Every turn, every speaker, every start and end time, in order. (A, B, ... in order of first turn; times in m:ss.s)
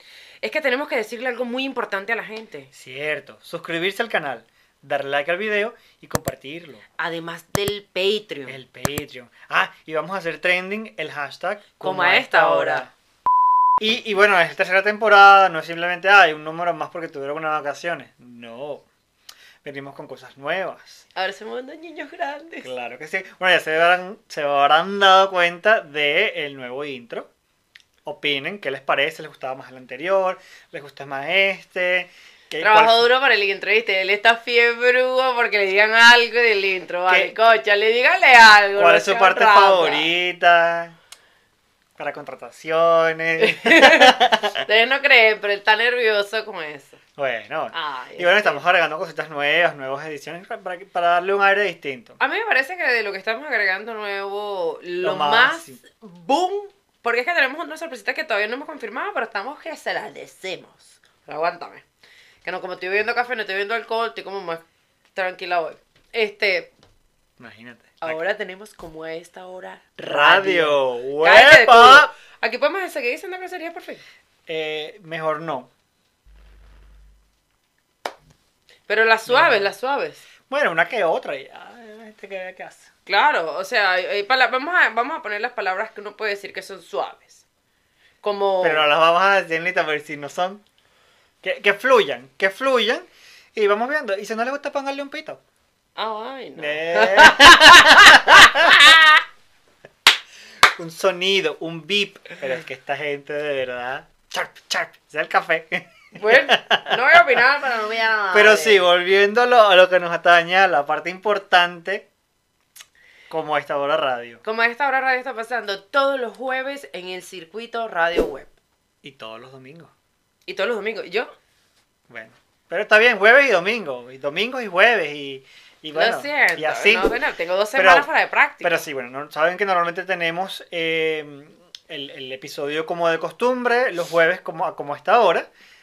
0:00.4-0:02.7 A
0:02.7-0:06.8 B
0:07.0-0:08.6 A
0:08.4-0:12.9 B
0:11.8-0:12.9 A
0:13.8-0:18.8 B
0:19.6-0:21.0 B
0:21.1-0:22.7 A
0:22.6-0:27.3 B
0:28.0-0:33.0 B
0:32.6-0:40.1 A
0:37.1-0:37.4 B
0:38.8-0:40.9 B
0:42.0-0:44.6 B
0:43.4-0:47.0 A
0:47.2-0:52.2 B
0:47.7-0:48.6 A
0:52.2-1:01.8 A
0:55.0-0:55.8 B
1:02.4-1:04.6 A
1:05.1-1:06.7 A
1:07.4-1:08.2 B
1:08.0-1:14.0 A
1:10.0-1:12.1 B
1:14.5-1:15.7 B
1:18.9-1:20.2 A
1:19.3-1:19.7 B
1:20.5-1:22.9 B
1:23.0-1:27.4 A
1:28.2-1:28.8 A
1:28.6-1:30.6 B
1:31.4-1:35.4 B
1:36.0-1:39.2 A
1:36.6-1:38.8 B
1:40.8-1:47.0 B
1:46.2-1:48.8 A
1:48.3-1:52.0 B
1:53.3-1:54.4 B
1:54.4-1:58.5 A
1:59.0-1:59.9 B
2:00.4-2:01.3 A
2:02.1-2:07.1 B
2:05.9-2:08.8 A
2:07.8-2:08.1 B
2:08.6-2:15.5 B